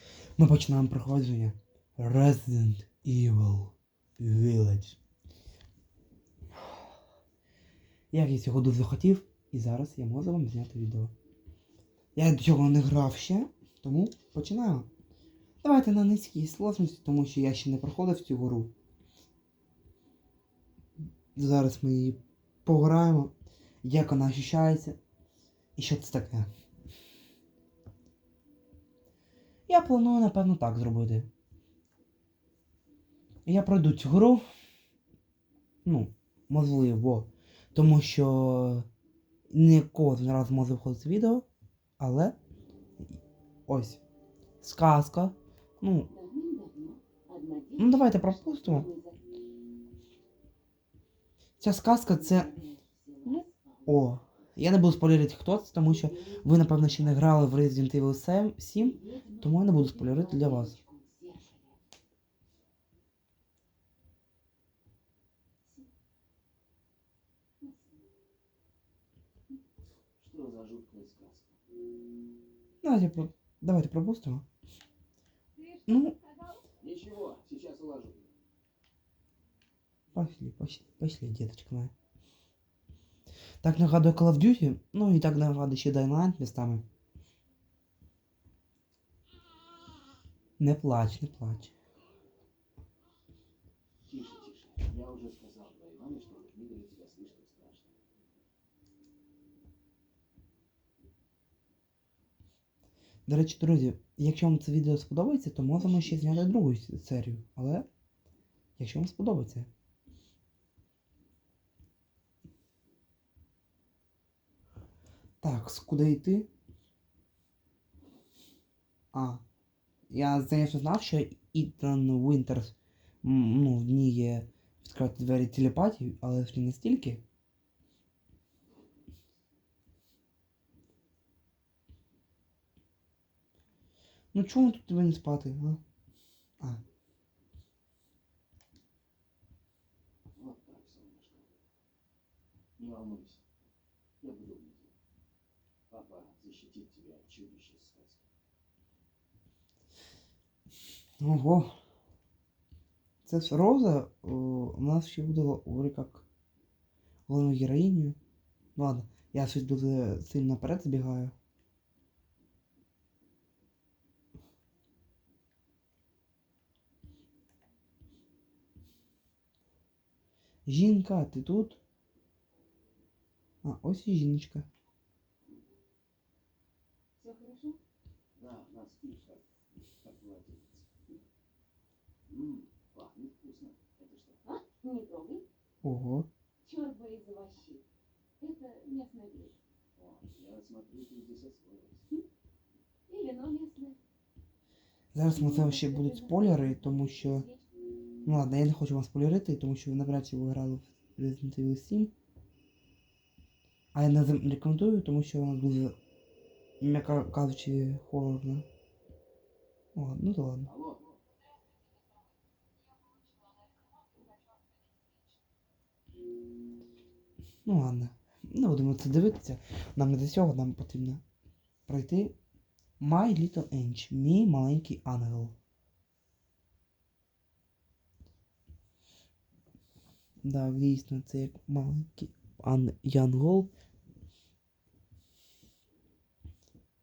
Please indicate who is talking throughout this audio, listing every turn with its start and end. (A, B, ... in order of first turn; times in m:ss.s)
0:00.4-0:05.0 A
0:08.1-0:11.1 A
0:12.1-0:14.9 A
0:15.6-0:18.7 A
0:21.4-0:23.3 A
0:23.8-0:25.0 A
0:25.8-0:26.5 A
0:29.7-0:31.3 A
0:33.4-0:34.4 A
0:35.8-0:38.9 A
0:39.5-0:41.4 A
0:42.0-0:42.4 A
0:43.0-0:44.0 A
0:44.6-0:46.1 A
0:46.1-0:49.3 B
0:47.8-0:48.9 A
0:51.6-0:52.6 A
0:52.0-0:53.9 B
0:53.2-1:00.8 A
0:55.8-0:57.2 B
0:58.8-1:01.8 B
1:07.6-1:08.1 B
1:10.2-1:11.6 C
1:12.8-1:14.4 A
1:15.6-1:16.6 B
1:15.9-1:16.2 A
1:16.8-1:18.3 C
1:20.1-1:21.9 A
1:23.6-1:26.8 A
1:30.6-1:31.7 A
1:34.0-1:37.9 C
1:43.2-1:47.9 A
1:45.8-1:46.5 C
1:48.8-1:49.7 A
1:55.4-1:56.5 A
1:59.1-1:59.4 A
2:00.1-2:07.2 A
2:14.3-2:15.8 A
2:20.3-2:21.5 C
2:22.8-2:23.4 C
2:24.2-2:24.9 C
2:25.9-2:28.2 C
2:31.2-2:31.7 A
2:33.2-2:36.2 A
2:37.3-2:38.2 A
2:38.8-2:41.3 A
2:50.7-2:51.8 A
2:53.6-2:54.7 A
2:57.2-2:57.8 B
2:58.4-2:59.4 C
3:00.0-3:00.9 C
3:02.3-3:04.4 C
3:04.4-3:05.4 B
3:05.8-3:06.3 A
3:06.6-3:07.8 B
3:08.4-3:09.6 B
3:10.0-3:12.1 C
3:13.1-3:14.0 B
3:15.1-3:17.4 A
3:15.3-3:17.7 B
3:18.2-3:22.1 A
3:23.9-3:26.0 A
3:26.8-3:28.7 A
3:29.9-3:30.7 A
3:30.6-3:31.2 C
3:31.9-3:32.3 B
3:32.9-3:35.4 B
3:37.6-3:41.2 A
3:41.9-3:42.4 A
3:43.0-3:45.6 A
3:50.4-3:53.7 A